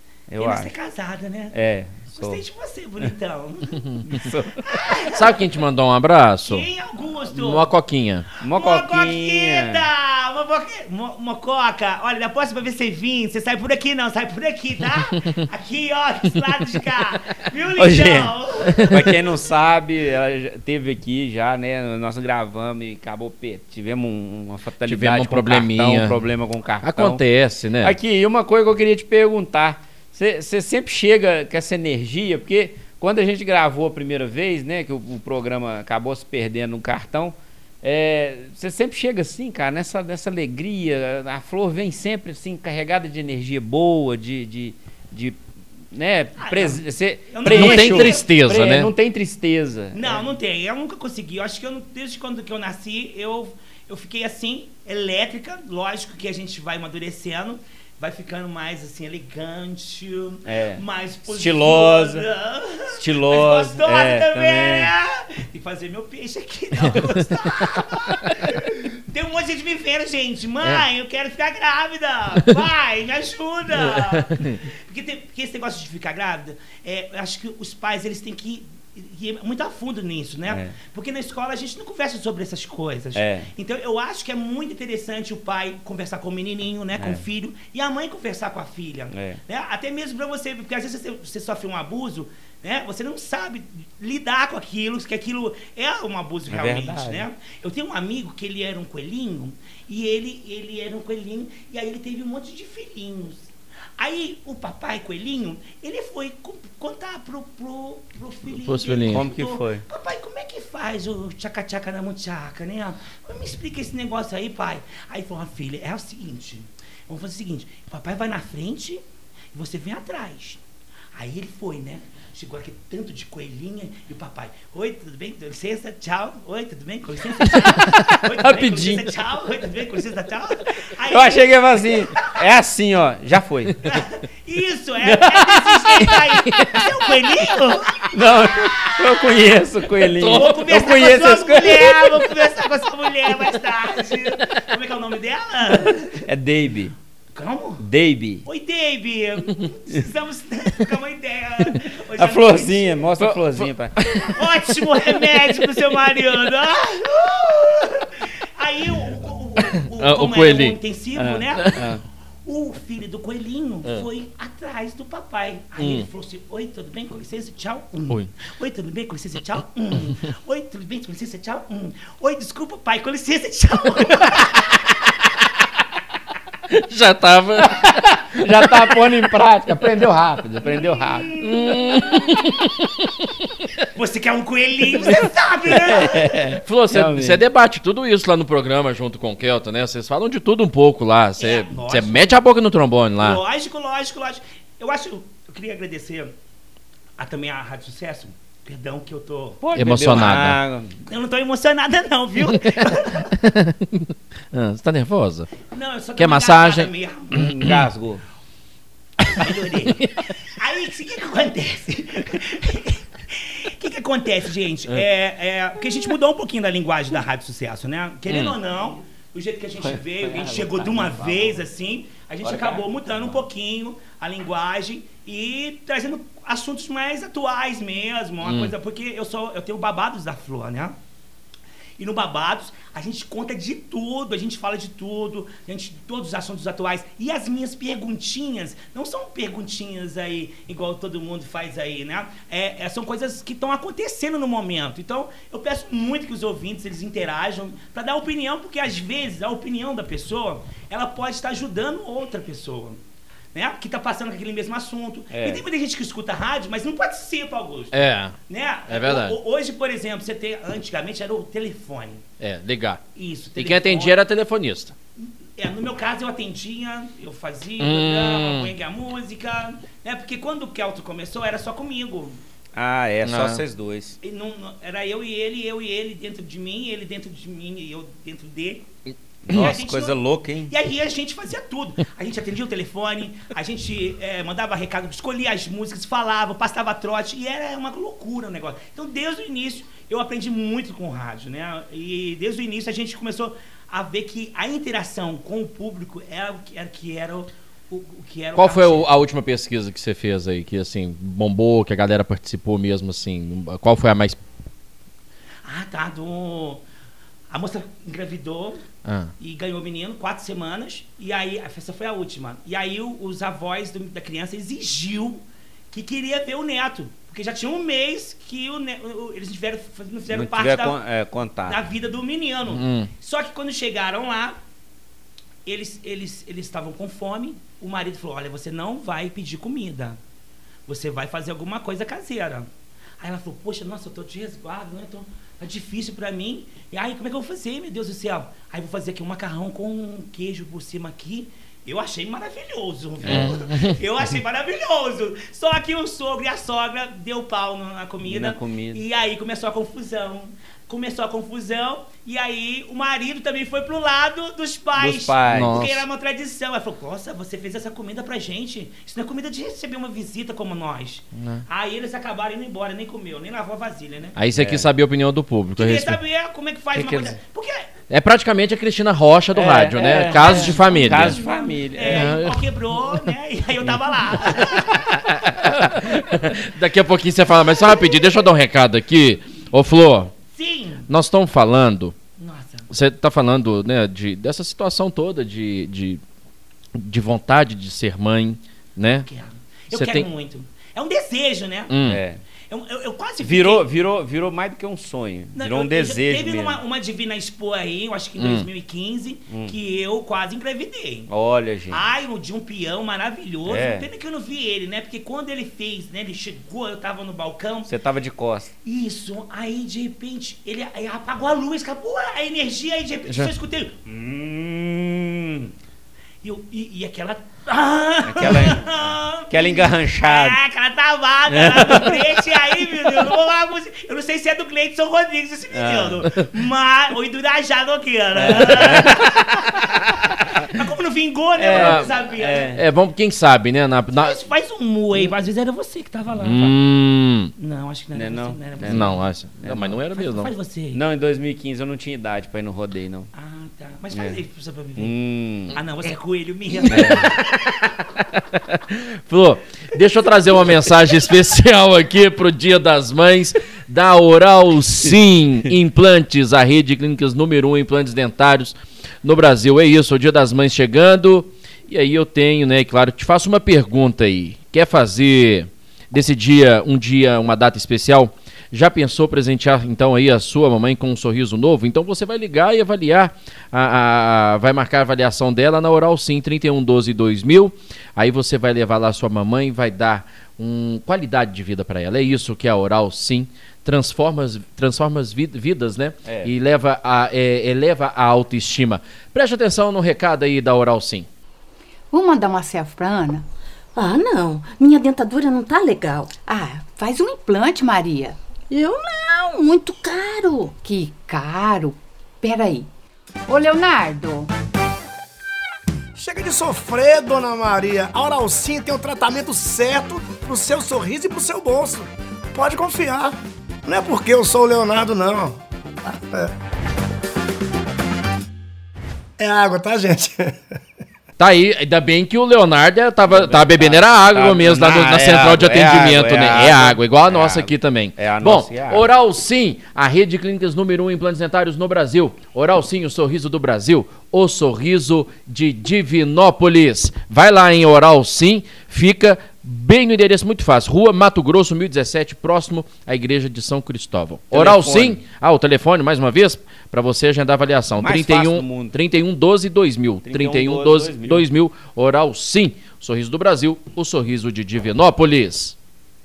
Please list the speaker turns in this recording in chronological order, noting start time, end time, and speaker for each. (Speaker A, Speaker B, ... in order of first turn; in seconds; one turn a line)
Speaker A: 0.3-0.7
Speaker B: 0.4-1.6
Speaker A: 1.5-2.4
Speaker B: 2.1-5.5
Speaker A: 4.1-4.7
Speaker C: 5.1-6.7
Speaker B: 6.5-7.7
Speaker C: 7.3-8.2
Speaker B: 8.4-19.2
Speaker A: 8.4-9.9
Speaker A: 17.8-27.2
Speaker C: 24.9-26.2
Speaker C: 26.8-28.0
Speaker A: 27.8-50.2
Speaker B: 46.4-48.3
Speaker C: 47.5-48.9
Speaker B: 49.9-103.5
Speaker A: 60.5-62.3
Speaker A: 63.0-64.9
Speaker C: 74.0-74.6
Speaker A: 80.5-80.7
Speaker A: 83.2-83.5
Speaker A: 87.0-87.2
Speaker A: 89.1-89.4
Speaker A: 96.5-97.3
Speaker B: 104.0-119.0
Speaker C: 108.5-109.2
Speaker A: 109.0-109.8
Speaker B: 119.5-120.6
Speaker B: 121.2-132.4
Speaker A: 127.6-129.1
Speaker A: 131.1-134.0
Speaker B: 133.8-139.3
Speaker A: 135.0-136.2
Speaker A: 138.1-142.3
Speaker B: 140.1-146.2
Speaker A: 146.3-146.9
Speaker B: 147.3-147.8
Speaker A: 147.8-148.4
Speaker B: 148.4-153.2
Speaker A: 152.2-154.0
Speaker C: 154.0-154.3
Speaker B: 154.3-161.9
Speaker C: 160.0-160.8
Speaker A: 161.2-162.0
Speaker B: 162.5-175.0
Speaker C: 165.8-166.1
Speaker C: 176.7-178.6
Speaker A: 178.3-181.4
Speaker B: 180.7-182.4
Speaker C: 181.4-183.2
Speaker B: 183.9-186.6
Speaker A: 185.7-187.4
Speaker C: 186.7-193.4
Speaker B: 191.4-192.4
Speaker B: 193.2-196.3
Speaker B: 197.2-199.6
Speaker A: 199.6-201.0
Speaker C: 199.8-200.6
Speaker B: 201.1-203.3
Speaker C: 203.4-205.5
Speaker B: 205.7-207.4
Speaker C: 206.2-206.9
Speaker A: 207.3-208.2
Speaker C: 207.4-207.7
Speaker B: 209.2-231.0
Speaker C: 218.3-218.6
Speaker A: 219.8-221.7
Speaker A: 222.4-223.4
Speaker C: 228.4-228.7
Speaker B: 232.0-253.0
Speaker B: 253.5-257.9
Speaker A: 255.3-255.6
Speaker C: 257.9-258.3
Speaker B: 258.5-262.2
Speaker C: 258.9-259.4
Speaker C: 262.4-263.0
Speaker B: 263.1-264.2
Speaker C: 263.6-264.9
Speaker B: 265.2-272.4
Speaker C: 267.8-268.7
Speaker A: 272.8-274.2
Speaker C: 273.3-273.6
Speaker B: 274.2-278.9
Speaker A: 279.5-280.7
Speaker B: 279.5-299.1
Speaker C: 298.6-304.4
Speaker B: 305.6-306.8
Speaker B: 307.5-308.8
Speaker C: 309.1-309.3
Speaker B: 309.4-321.0
Speaker A: 320.3-321.8
Speaker B: 321.7-324.6
Speaker C: 322.7-323.1
Speaker B: 325.7-330.2
Speaker B: 330.9-332.7
Speaker B: 333.2-364.4
Speaker A: 343.2-343.6
Speaker C: 343.3-344.0
Speaker A: 348.2-349.0
Speaker A: 354.9-355.8
Speaker C: 355.5-356.0
Speaker C: 361.4-361.6
Speaker C: 364.4-366.2
Speaker A: 364.6-364.9
Speaker B: 365.8-367.9
Speaker C: 366.9-367.4
Speaker C: 368.1-371.4
Speaker A: 369.5-372.4
Speaker B: 370.1-375.1
Speaker C: 372.0-372.6
Speaker C: 375.1-380.3
Speaker B: 380.5-381.1
Speaker C: 381.1-382.1
Speaker B: 382.4-382.9
Speaker C: 382.9-386.2
Speaker C: 386.9-389.3
Speaker B: 389.2-391.9
Speaker C: 389.9-390.3
Speaker C: 391.9-392.2
Speaker A: 392.0-392.4
Speaker B: 392.7-393.9
Speaker A: 393.4-396.8
Speaker B: 395.6-401.3
Speaker C: 398.4-398.7
Speaker A: 401.3-402.0
Speaker B: 401.9-407.9
Speaker A: 403.7-404.1
Speaker A: 407.9-408.7
Speaker B: 408.8-415.7
Speaker B: 416.4-432.8
Speaker A: 418.2-420.6
Speaker A: 421.5-422.4
Speaker A: 425.7-426.2
Speaker A: 428.4-429.3
Speaker A: 431.6-432.8
Speaker C: 431.7-432.1
Speaker C: 432.7-434.4
Speaker B: 434.1-436.8
Speaker C: 436.4-437.5
Speaker B: 437.6-439.2
Speaker A: 438.1-440.0
Speaker C: 438.9-440.5
Speaker B: 440.1-441.0
Speaker A: 440.9-443.3
Speaker B: 443.3-445.2
Speaker A: 444.1-444.4
Speaker A: 445.0-445.8
Speaker B: 445.7-447.9
Speaker A: 446.9-447.4
Speaker C: 448.7-491.3
Speaker A: 486.2-486.5
Speaker D: 492.1-493.5
Speaker E: 493.9-496.4
Speaker D: 496.4-498.4
Speaker E: 498.7-500.5
Speaker D: 499.6-502.9
Speaker D: 503.5-504.5
Speaker F: 506.2-513.4
Speaker F: 513.9-516.5
Speaker F: 519.4-520.6
Speaker C: 521.4-555.8
Speaker A: 523.2-529.1
Speaker A: 544.5-545.2
Speaker A: 548.0-548.9
Speaker A: 550.2-551.5